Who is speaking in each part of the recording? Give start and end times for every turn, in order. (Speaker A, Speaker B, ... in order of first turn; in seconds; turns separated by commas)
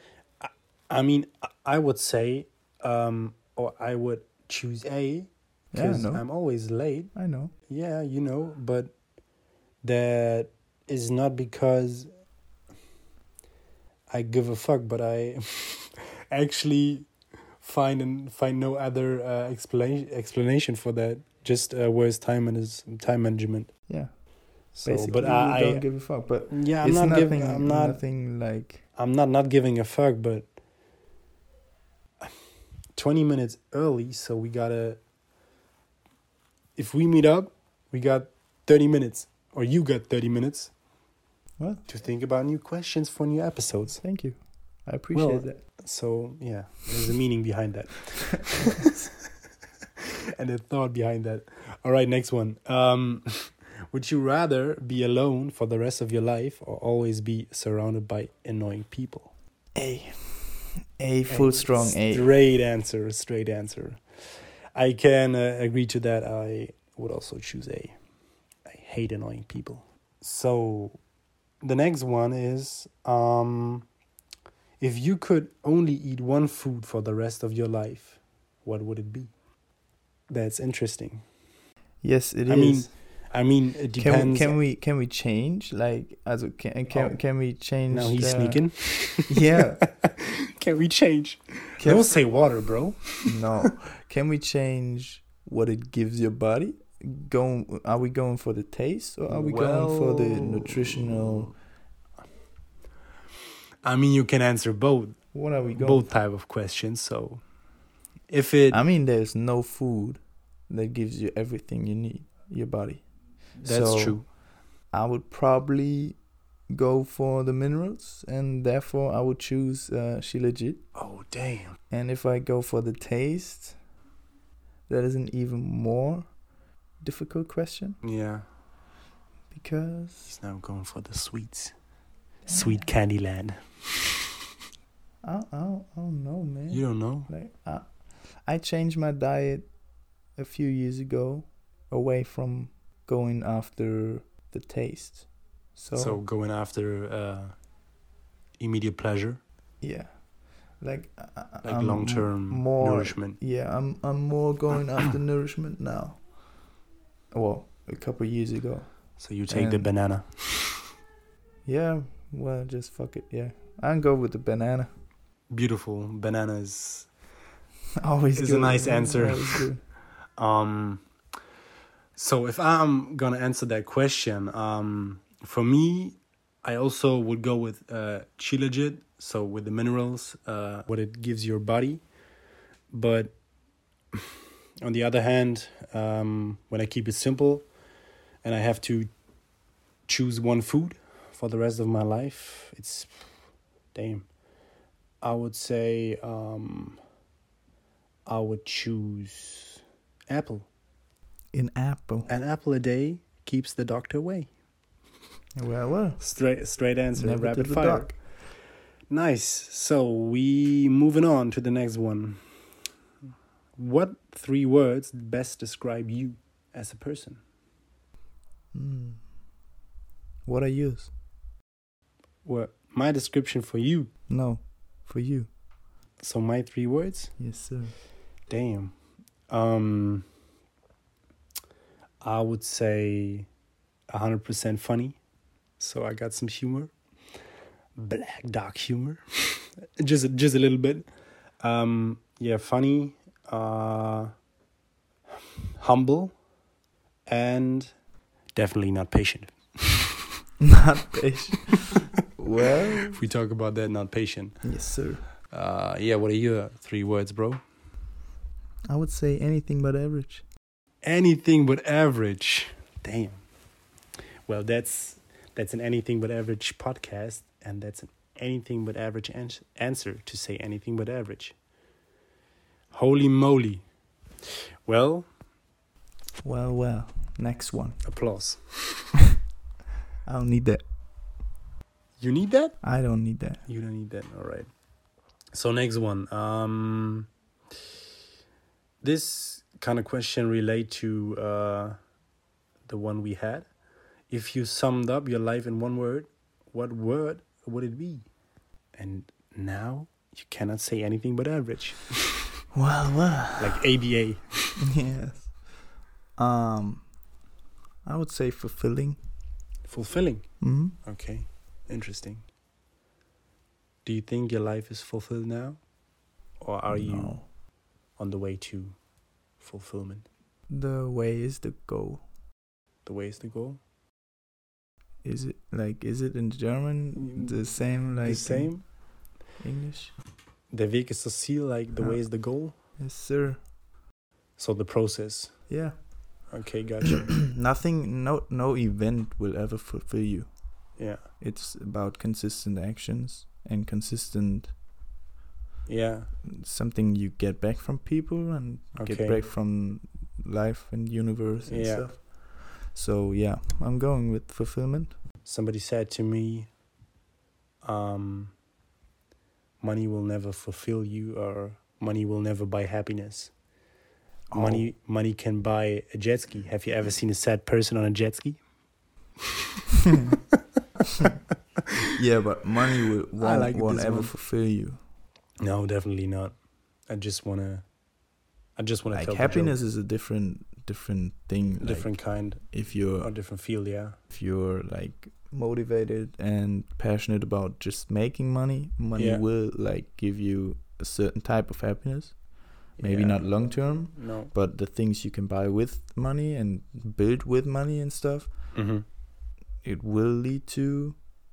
Speaker A: 0.4-7.1, Speaker B: 5.7-6.2, Speaker B: 7.1-7.5, Speaker A: 7.7-8.9, Speaker A: 9.8-12.1, Speaker A: 14.1-17.1, Speaker A: 17.6-23.7, Speaker A: 24.7-25.9, Speaker B: 24.8-28.8, Speaker A: 26.5-28.0, Speaker A: 29.0-30.5, Speaker A: 33.0-35.0, Speaker A: 36.8-40.7, Speaker B: 41.6-41.8, Speaker A: 41.9-44.0, Speaker B: 44.0-45.6, Speaker A: 45.1-49.0, Speaker A: 50.4-59.3, Speaker B: 59.8-62.3, Speaker A: 61.3-68.0, Speaker A: 68.7-71.0, Speaker A: 71.6-73.9, Speaker A: 74.8-79.3, Speaker A: 80.3-81.2, Speaker B: 82.0-82.9, Speaker A: 82.5-84.6, Speaker B: 84.0-89.8, Speaker A: 86.9-87.2, Speaker A: 87.9-93.7, Speaker B: 91.8-92.1, Speaker B: 93.2-101.5, Speaker A: 99.3-101.5, Speaker A: 103.8-107.4, Speaker B: 105.3-106.1, Speaker A: 108.3-108.8, Speaker B: 108.7-113.0, Speaker A: 113.6-114.3, Speaker B: 113.6-114.3, Speaker B: 114.9-116.2, Speaker B: 116.7-120.8, Speaker A: 121.0-121.8, Speaker B: 121.9-123.8, Speaker B: 124.9-126.3, Speaker B: 127.0-128.0, Speaker A: 128.0-128.4, Speaker B: 129.5-130.3, Speaker A: 130.3-131.7, Speaker B: 132.5-132.9, Speaker A: 132.5-134.0, Speaker B: 135.2-139.7, Speaker A: 136.7-137.3, Speaker B: 140.4-146.2, Speaker A: 146.0-147.6, Speaker A: 148.6-149.4, Speaker B: 149.8-150.1, Speaker B: 150.8-156.3, Speaker A: 151.6-153.4, Speaker B: 157.3-159.9, Speaker A: 159.2-160.8, Speaker B: 161.7-164.9, Speaker A: 165.5-167.1, Speaker B: 168.0-169.8, Speaker A: 168.3-169.7, Speaker A: 170.4-171.0, Speaker A: 172.2-182.0, Speaker A: 182.9-183.3, Speaker A: 184.8-187.7, Speaker A: 188.4-189.1, Speaker A: 190.1-193.1, Speaker A: 193.9-194.3, Speaker A: 195.2-197.0, Speaker A: 198.3-200.7, Speaker B: 201.5-202.3, Speaker A: 202.3-204.5, Speaker B: 205.6-206.2, Speaker A: 206.2-208.4, Speaker B: 207.2-208.2, Speaker A: 209.1-212.4, Speaker A: 213.8-217.4, Speaker B: 218.7-219.2, Speaker B: 220.5-221.1, Speaker A: 222.4-224.1, Speaker B: 224.3-225.5, Speaker A: 226.2-227.3, Speaker B: 227.4-227.9, Speaker A: 228.5-228.9, Speaker A: 229.5-230.3, Speaker A: 232.2-233.5, Speaker A: 234.1-235.2, Speaker A: 235.8-236.9, Speaker A: 238.0-241.1, Speaker A: 241.6-244.3, Speaker A: 245.8-246.3, Speaker A: 247.3-247.9, Speaker A: 248.6-250.0, Speaker B: 250.6-253.2, Speaker A: 253.1-254.7, Speaker B: 254.6-255.2, Speaker A: 255.5-257.6, Speaker B: 258.9-260.4, Speaker A: 261.0-263.4, Speaker A: 264.5-271.6, Speaker A: 272.9-273.8, Speaker A: 274.9-275.3, Speaker B: 276.4-278.0, Speaker A: 278.1-279.1, Speaker B: 280.3-280.8, Speaker A: 282.2-282.8, Speaker B: 282.8-283.6, Speaker A: 283.7-284.7, Speaker A: 285.5-287.3, Speaker A: 289.0-292.0, Speaker A: 292.9-293.7, Speaker A: 294.3-298.3, Speaker A: 299.0-302.4, Speaker B: 302.7-303.8, Speaker A: 303.6-304.8, Speaker B: 304.8-305.5, Speaker B: 306.4-307.1, Speaker B: 308.0-309.2, Speaker A: 309.9-312.5, Speaker B: 310.6-311.0, Speaker A: 314.1-315.8, Speaker A: 316.6-317.5, Speaker B: 316.9-317.5, Speaker A: 318.2-319.0, Speaker A: 319.6-320.3, Speaker B: 320.7-322.2, Speaker A: 323.1-323.8, Speaker B: 325.2-328.9, Speaker A: 327.2-328.9, Speaker B: 329.6-330.2, Speaker A: 330.7-332.8, Speaker B: 332.0-332.2, Speaker B: 333.0-333.6, Speaker A: 334.6-335.7, Speaker B: 335.7-336.5, Speaker A: 336.5-337.4, Speaker B: 337.1-340.5, Speaker A: 341.0-341.2, Speaker B: 341.4-344.7, Speaker A: 345.9-346.3, Speaker B: 346.4-355.1, Speaker A: 349.0-349.4, Speaker A: 351.7-352.1, Speaker A: 355.4-356.7, Speaker A: 357.8-358.6, Speaker A: 359.8-363.5, Speaker B: 364.5-364.9, Speaker A: 364.5-368.6, Speaker B: 372.1-375.0, Speaker A: 373.4-374.3, Speaker A: 375.6-376.6, Speaker A: 377.1-377.9, Speaker A: 378.8-379.8, Speaker B: 379.1-383.3, Speaker A: 381.8-384.2, Speaker B: 384.3-398.7, Speaker A: 389.2-389.4, Speaker A: 393.0-393.6, Speaker A: 394.1-394.5, Speaker A: 398.7-399.1, Speaker B: 399.8-401.2